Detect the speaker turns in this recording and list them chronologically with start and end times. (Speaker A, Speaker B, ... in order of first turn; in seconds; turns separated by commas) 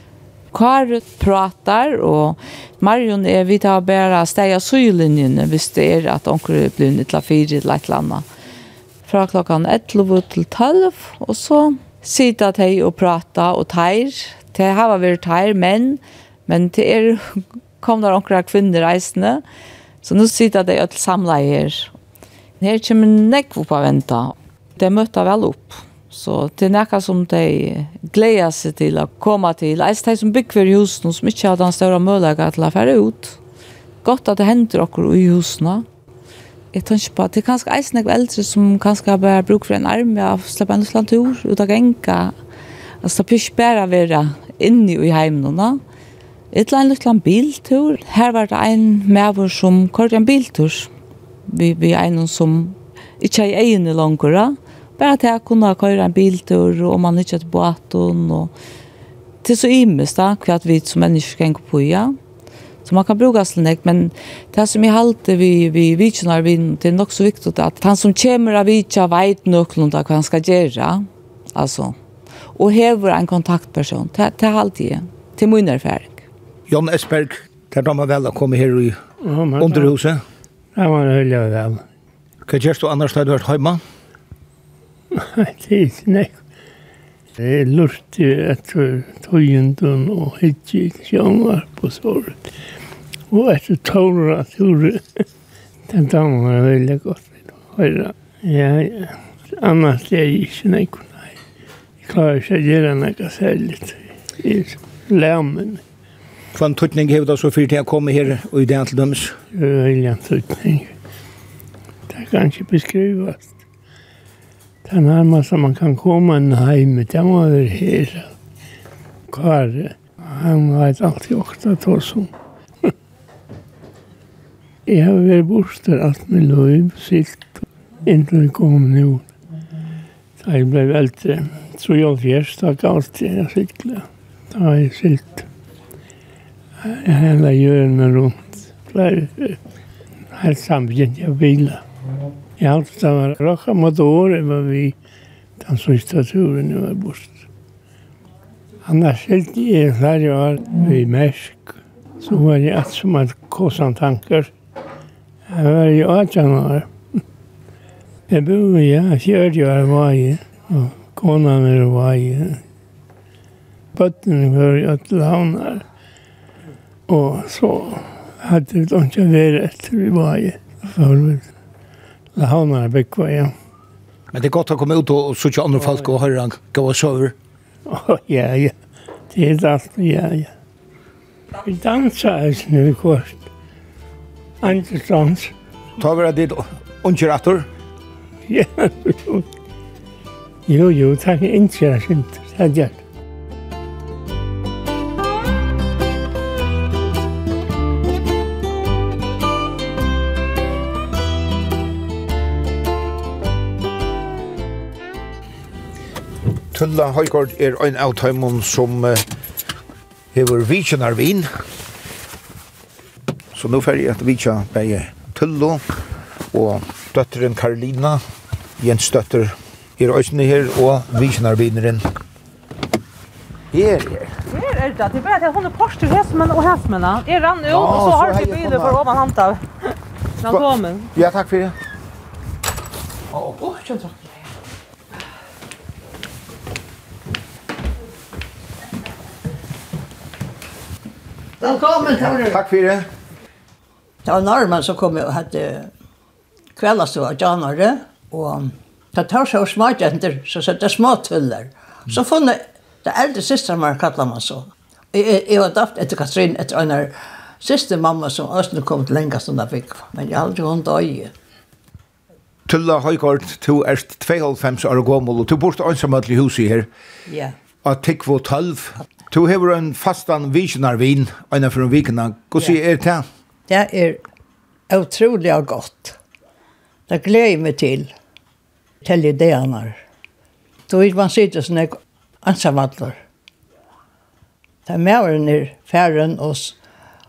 Speaker A: 0.5-8.3, Speaker A: 9.1-19.4, Speaker A: 20.0-21.9, Speaker A: 22.6-33.4, Speaker A: 34.0-35.9, Speaker A: 36.7-42.4, Speaker A: 43.0-45.8, Speaker A: 46.5-50.9, Speaker A: 51.5-58.5, Speaker A: 59.4-62.2, Speaker A: 62.8-72.0, Speaker A: 72.5-76.2, Speaker B: 76.7-79.0, Speaker C: 79.2-79.9, Speaker B: 79.6-80.2, Speaker C: 80.8-81.8, Speaker B: 82.5-83.8, Speaker C: 85.1-86.4, Speaker C: 87.4-92.5, Speaker C: 93.3-95.2, Speaker C: 95.9-101.3, Speaker C: 102.0-105.8, Speaker B: 106.5-109.4, Speaker C: 109.5-110.9, Speaker C: 112.1-113.5, Speaker C: 114.8-118.3, Speaker C: 119.3-122.3, Speaker C: 124.9-129.2, Speaker C: 130.4-135.4, Speaker C: 136.8-139.6, Speaker C: 140.3-141.8, Speaker C: 142.6-145.0, Speaker C: 145.6-147.3, Speaker C: 148.8-154.5, Speaker C: 155.5-156.9, Speaker C: 158.3-162.6, Speaker C: 163.9-165.8, Speaker C: 167.1-171.4, Speaker C: 172.4-173.5, Speaker B: 174.3-177.3, Speaker C: 177.9-178.8, Speaker C: 179.3-180.5, Speaker C: 181.6-183.4, Speaker C: 184.6-185.5, Speaker B: 186.0-187.7, Speaker C: 188.5-189.4, Speaker C: 190.7-193.0, Speaker B: 206.7-209.2, Speaker B: 210.3-211.5, Speaker B: 213.5-215.8, Speaker B: 216.5-218.2, Speaker B: 218.8-222.1, Speaker B: 223.7-224.3, Speaker D: 224.5-229.7, Speaker B: 227.7-229.0, Speaker D: 230.4-231.1, Speaker B: 230.5-231.8, Speaker D: 233.6-234.3, Speaker E: 241.6-242.6, Speaker B: 242.3-243.1, Speaker E: 244.2-245.9, Speaker E: 246.8-261.3, Speaker B: 262.7-266.9, Speaker E: 267.3-267.6, Speaker B: 267.8-273.3, Speaker E: 273.7-274.2, Speaker E: 274.9-276.2, Speaker E: 277.1-278.1, Speaker E: 279.0-280.0, Speaker E: 280.9-283.2, Speaker E: 284.9-286.8